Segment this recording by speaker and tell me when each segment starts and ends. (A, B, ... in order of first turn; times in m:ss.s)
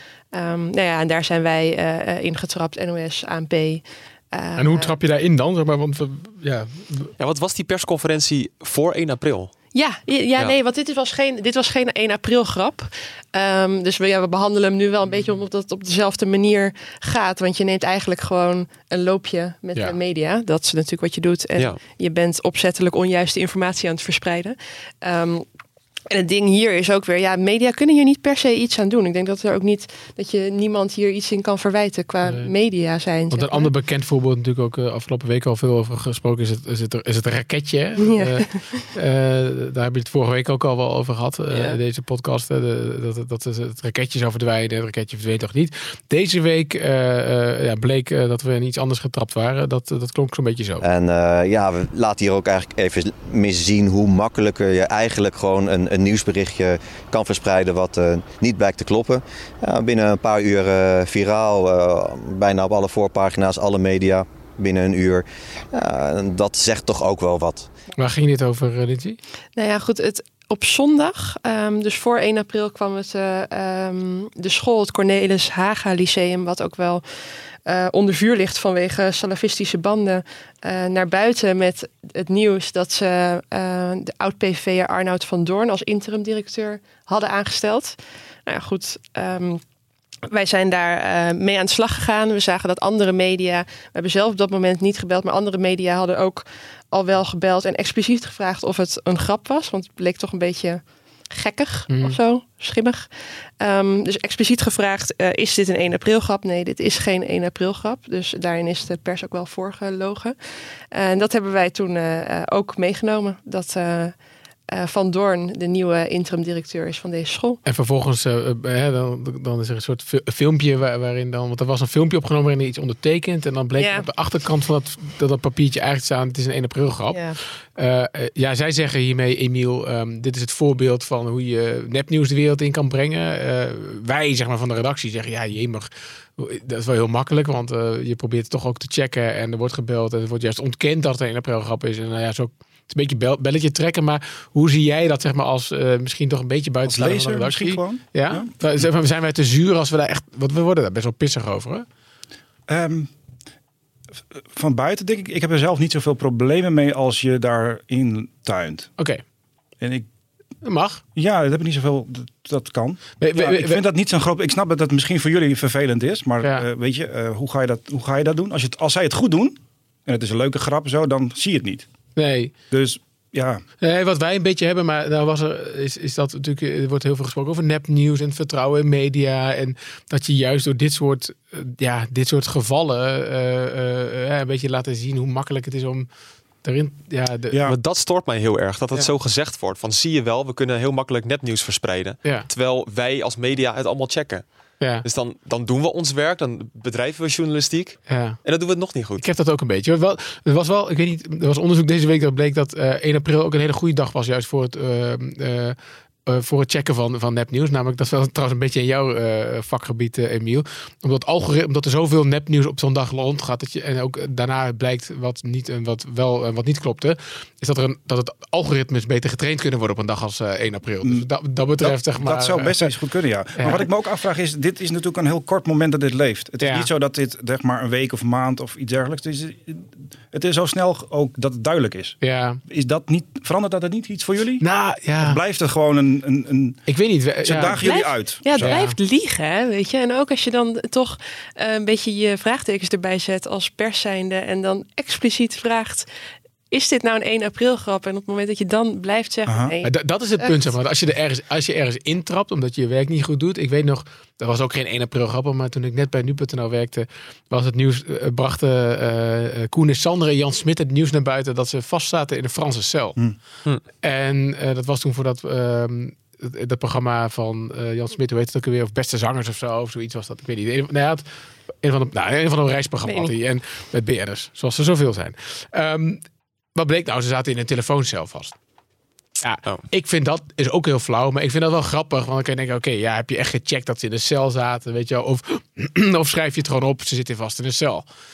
0:00.3-0:04.9 A
0:04.6-0:07.1 B
0:07.2-0:09.5 C
0:09.8-0:25.4 A
0:26.1-0:33.7 A
0:32.2-0:32.5 B
0:33.3-0:50.8 B
0:38.0-0:38.8 A
0:41.5-0:41.8 A
0:50.8-1:07.7 D
1:08.0-1:09.2 B
1:09.6-1:17.0 A
1:17.6-1:29.6 A
1:30.3-1:50.4 A
1:41.9-1:42.2 B
1:50.9-1:57.6 A
1:57.6-2:07.2 B
2:03.8-2:04.1 A
2:07.1-2:07.4 A
2:07.8-2:31.9 B
2:26.8-2:28.5 E
2:32.7-2:33.1 E
2:34.5-2:38.9 E
2:39.8-2:40.1 E
2:40.6-2:41.0 B
2:41.2-2:51.9 E
2:43.2-2:43.8 B
2:52.2-2:52.5 B
2:52.7-2:53.6 E
2:53.8-3:06.1 B
3:06.6-3:07.6 B
3:07.5-3:07.8 E
3:07.6-3:14.4 C
3:15.0-3:19.2 C
3:18.1-3:18.4 B
3:19.2-3:42.9 B
3:41.0-3:54.6 E
3:43.6-3:43.8 B
3:46.6-3:46.9 B
3:52.2-3:52.6 B
3:54.6-3:55.4 B
3:55.2-3:56.8 E
3:56.9-3:57.9 B
3:57.4-3:58.8 E
3:57.8-4:06.1 A
3:58.5-3:59.0 B
4:06.7-4:10.6 A
4:09.4-4:09.7 E
4:09.8-4:23.2 B
4:24.0-4:31.2 B
4:31.8-4:36.2 B
4:33.0-4:33.3 A
4:36.8-4:38.5 B
4:39.4-4:48.0 B